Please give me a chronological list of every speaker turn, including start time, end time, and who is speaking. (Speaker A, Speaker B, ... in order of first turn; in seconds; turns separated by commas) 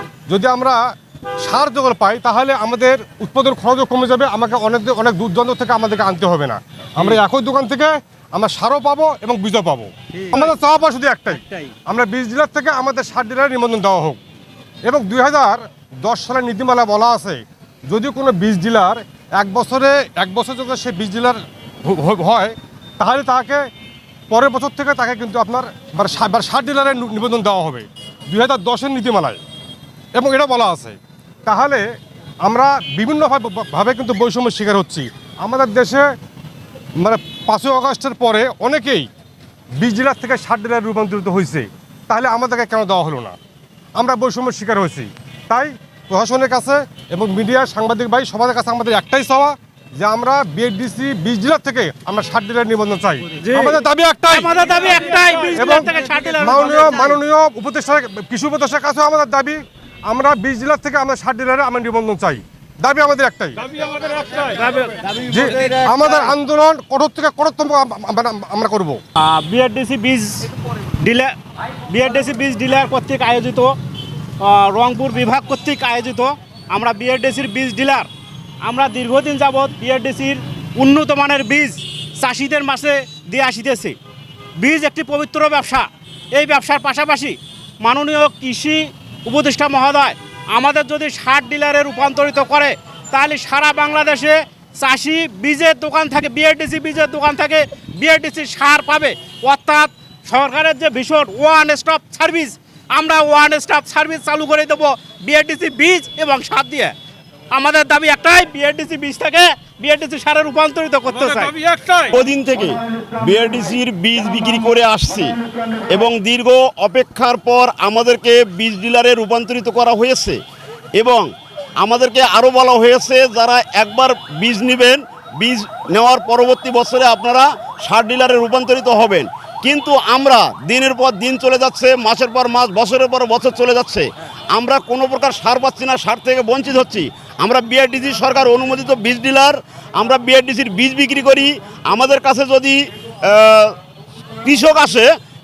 Speaker A: 0.3-0.8, Speaker A: 1.4-14.2, Speaker A: 14.8-23.6, Speaker A: 24.3-29.4, Speaker A: 30.1-31.9, Speaker A: 32.5-36.1, Speaker A: 37.0-39.1, Speaker A: 39.8-43.4, Speaker A: 44.0-54.5, Speaker B: 53.4-53.8, Speaker B: 54.3-57.1, Speaker A: 55.5-63.6, Speaker B: 64.3-65.0, Speaker A: 65.2-69.0, Speaker C: 65.3-65.6, Speaker B: 69.2-71.3, Speaker B: 71.9-73.8, Speaker B: 74.4-78.1, Speaker B: 78.6-84.0, Speaker B: 84.6-107.0, Speaker B: 107.5-111.9, Speaker C: 112.0-115.4, Speaker C: 115.9-120.4, Speaker C: 121.0-121.3, Speaker C: 121.8-143.8, Speaker C: 144.4-145.1